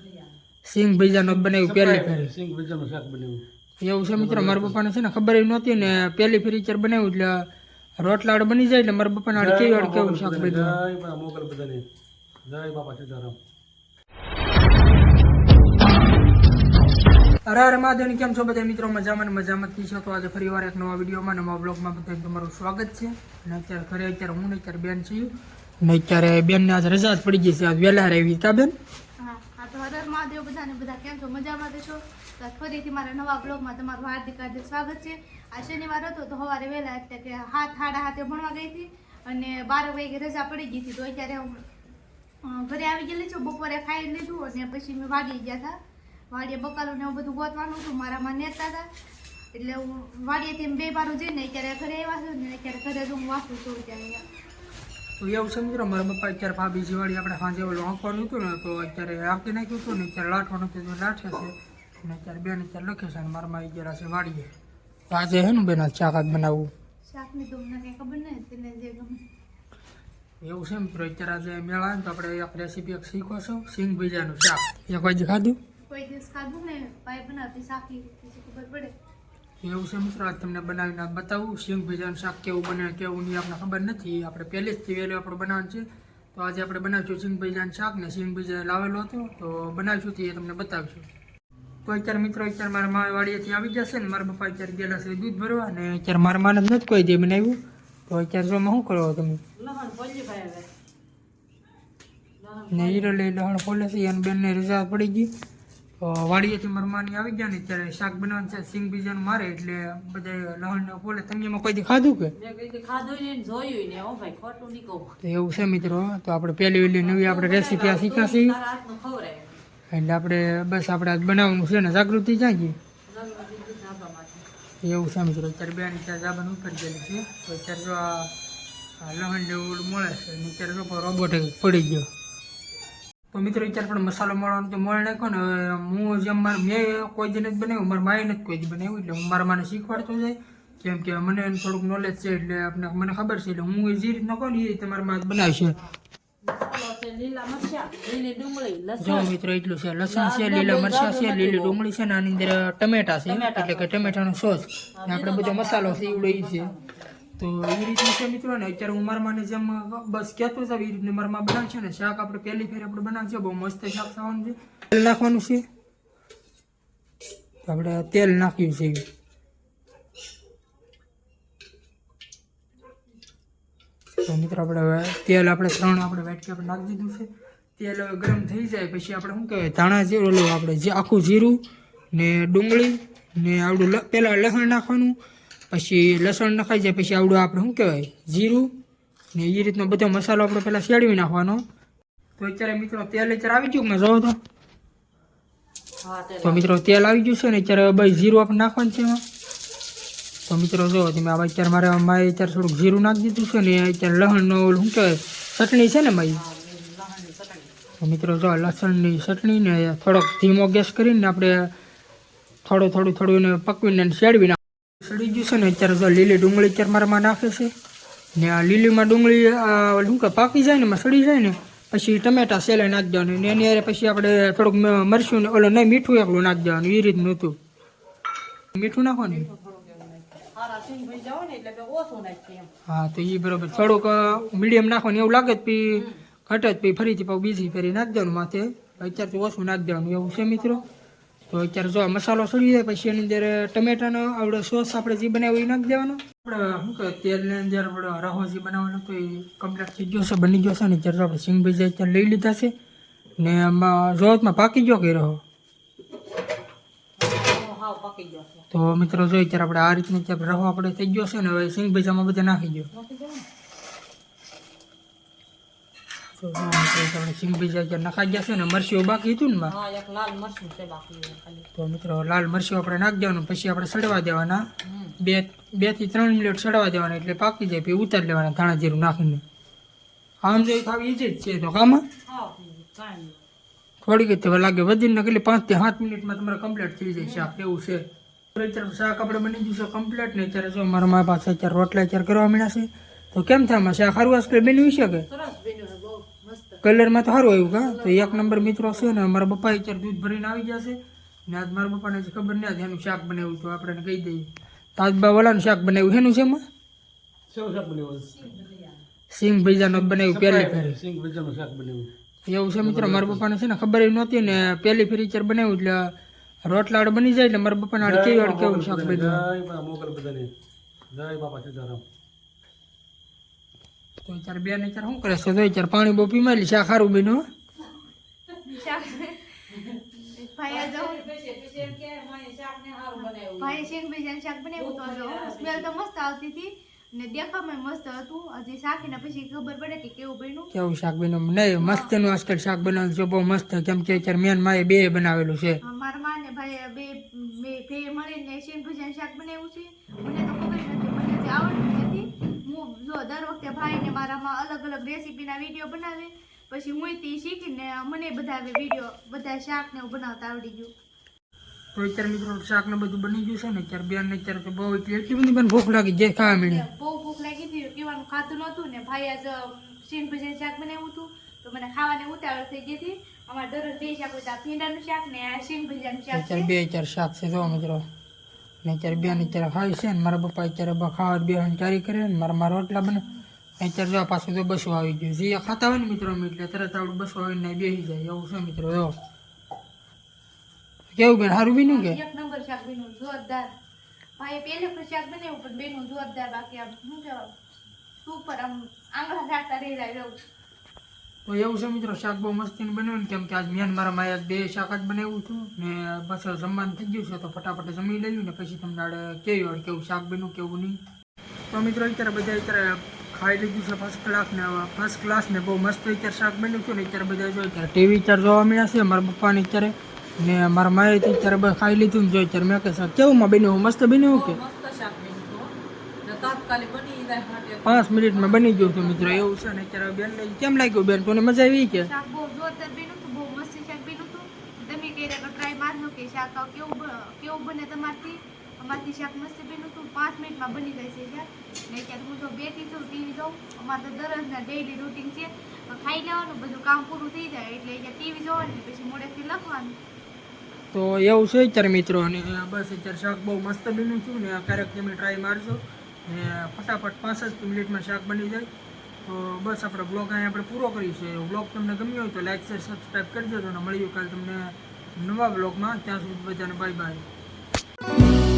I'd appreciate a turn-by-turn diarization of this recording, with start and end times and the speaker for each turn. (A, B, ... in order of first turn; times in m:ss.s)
0:00.6-0:02.3 A
0:01.4-0:03.4 B
0:03.8-0:07.5 A
0:04.2-0:04.8 B
0:08.0-0:10.8 A
0:09.3-0:11.8 B
0:12.4-0:13.4 B
0:17.4-0:28.7 A
0:29.2-0:41.6 C
0:42.4-0:45.8 C
0:46.3-0:48.9 C
0:49.5-0:54.2 C
0:55.2-1:04.5 A
1:05.1-1:06.7 A
1:07.0-1:09.2 C
1:10.4-1:15.6 A
1:15.9-1:18.9 C
1:19.6-1:31.1 A
1:31.8-1:39.4 A
1:39.6-1:40.7 D
1:42.4-1:43.2 D
1:42.7-1:45.3 A
1:46.0-1:52.3 A
1:52.3-1:55.1 D
1:55.2-1:58.6 A
1:57.0-1:59.6 D
1:59.9-2:02.8 A
2:03.1-2:04.4 D
2:04.8-2:08.3 A
2:09.0-2:12.1 A
2:13.3-2:25.8 A
2:26.4-2:29.3 D
2:29.0-2:36.7 A
2:30.1-2:31.8 D
2:33.2-2:34.2 D
2:34.9-2:36.9 D
2:37.4-2:45.6 A
2:47.6-2:49.0 A
2:54.2-3:05.2 A
3:05.7-3:08.7 A
3:09.3-3:11.6 A
3:12.4-3:14.4 A
3:16.0-3:16.7 D
3:16.4-3:19.2 A
3:20.5-3:26.4 A
3:26.3-3:27.7 D
3:28.0-3:31.7 A
3:32.6-3:37.7 A
3:38.3-3:47.6 A
3:48.7-3:49.5 A
3:49.2-3:52.7 D
3:52.9-4:00.8 A
3:55.9-3:56.2 D
4:01.5-4:12.7 A
4:13.4-4:15.4 A
4:17.2-4:18.6 D
4:18.7-4:22.9 A
4:22.9-4:23.4 D
4:26.4-4:29.7 A
4:29.6-4:31.7 D
4:31.8-4:34.6 A
4:34.8-4:35.1 D
4:35.2-4:39.4 A
4:40.4-4:42.0 A
4:42.2-4:43.4 D
4:44.0-4:55.3 A
4:47.2-4:47.5 D
4:55.3-4:56.8 D
4:56.8-5:06.6 A
4:57.7-4:59.2 D
5:07.5-5:08.4 B
5:08.4-5:08.9 D
5:09.3-5:11.0 A
5:10.0-5:12.1 B
5:12.4-5:16.1 A
5:12.8-5:13.4 B
5:16.6-5:19.4 A
5:18.0-5:20.5 B
5:21.1-5:22.0 B
5:24.2-5:27.4 A
5:28.6-5:29.6 C
5:29.7-5:30.1 D
5:30.2-5:31.3 C
5:30.7-5:33.9 D
5:33.2-5:40.7 C
5:34.8-5:35.9 D
5:40.7-5:45.8 A
5:41.8-5:42.1 C
5:45.8-6:00.9 C
6:01.9-6:06.8 A
6:06.4-6:16.7 C
6:16.3-6:18.0 A
6:18.8-6:23.2 A
6:19.1-6:19.5 C
6:23.8-6:29.1 A
6:31.1-6:32.2 A
6:31.8-6:33.7 C
6:34.4-6:37.5 C
6:38.2-6:40.4 C
6:41.4-6:51.0 A
6:51.7-7:04.6 A
7:04.3-7:09.4 D
7:07.8-7:12.1 A
7:11.9-7:30.0 C
7:30.9-7:38.7 A
7:39.2-7:47.2 A